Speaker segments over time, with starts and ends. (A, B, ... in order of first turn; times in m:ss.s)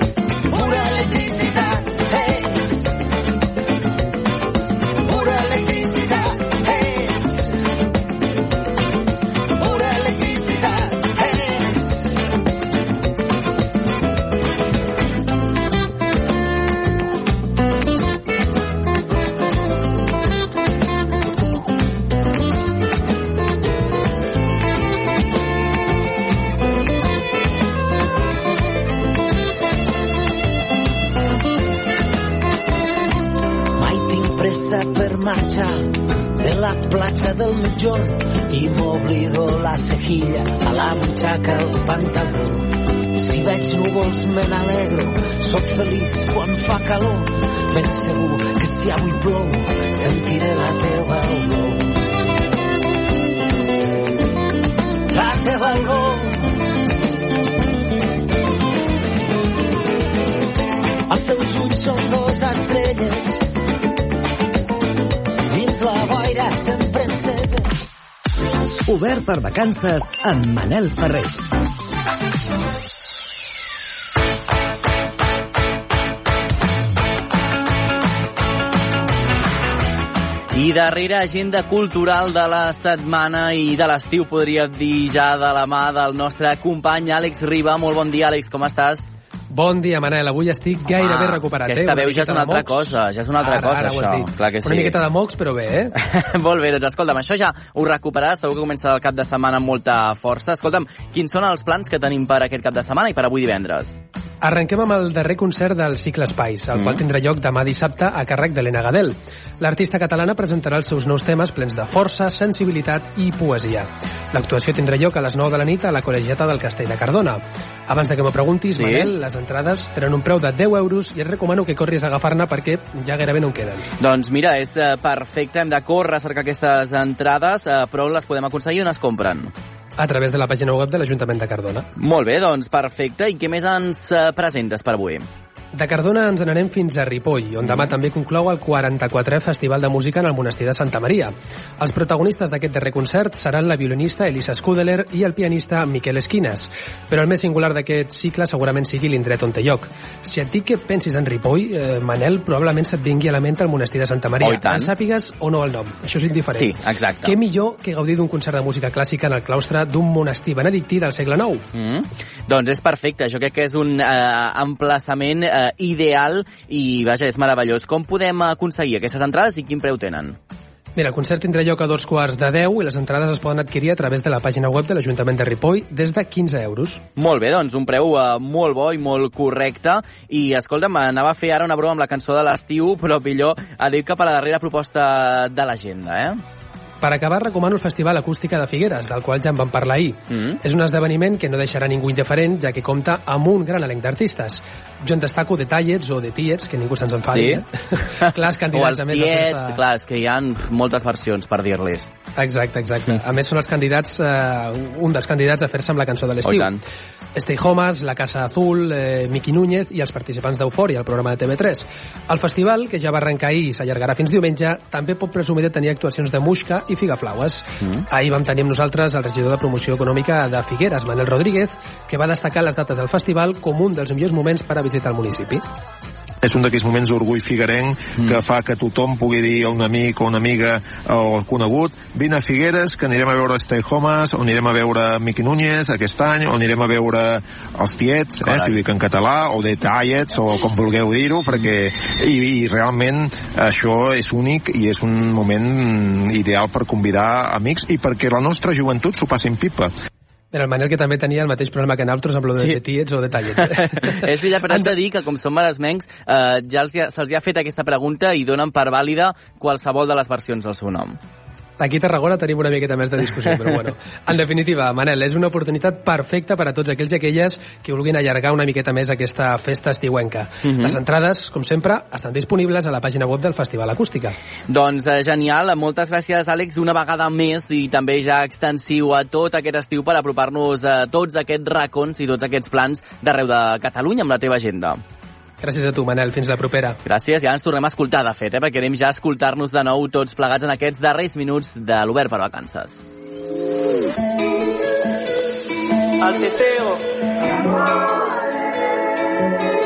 0:00.5-0:02.9 A
0:05.1-0:07.3 A
0:33.8-0:51.8 A
0:55.1-0:56.3 A
1:01.1-1:03.4 A
1:05.5-1:07.6 A
1:08.9-1:11.4 B
1:20.5-1:29.1 C
1:29.5-1:35.9 D
1:30.9-1:35.0 C
1:36.0-1:44.0 C
1:44.4-2:03.8 D
1:46.7-1:47.0 C
1:58.7-1:59.1 C
2:04.0-2:09.5 C
2:10.0-2:11.9 D
2:12.0-2:15.3 C
2:15.7-2:41.6 D
2:17.6-2:17.9 C
2:34.4-2:34.9 C
2:36.5-2:37.4 C
2:41.7-2:50.4 C
2:51.0-2:57.0 D
2:57.2-3:06.4 C
3:07.0-3:19.8 D
3:10.3-3:10.6 C
3:17.3-3:22.1 C
3:22.4-3:26.8 D
3:26.4-3:26.8 C
3:27.4-3:45.6 D
3:46.4-4:09.9 E
3:58.4-3:58.8 C
4:10.5-4:14.9 D
4:13.5-4:21.2 C
4:21.8-4:34.4 D
4:23.4-4:23.8 C
4:30.6-4:31.0 C
4:34.7-4:45.0 C
4:45.6-4:47.0 D
4:47.0-4:53.0 C
4:56.3-4:56.8 C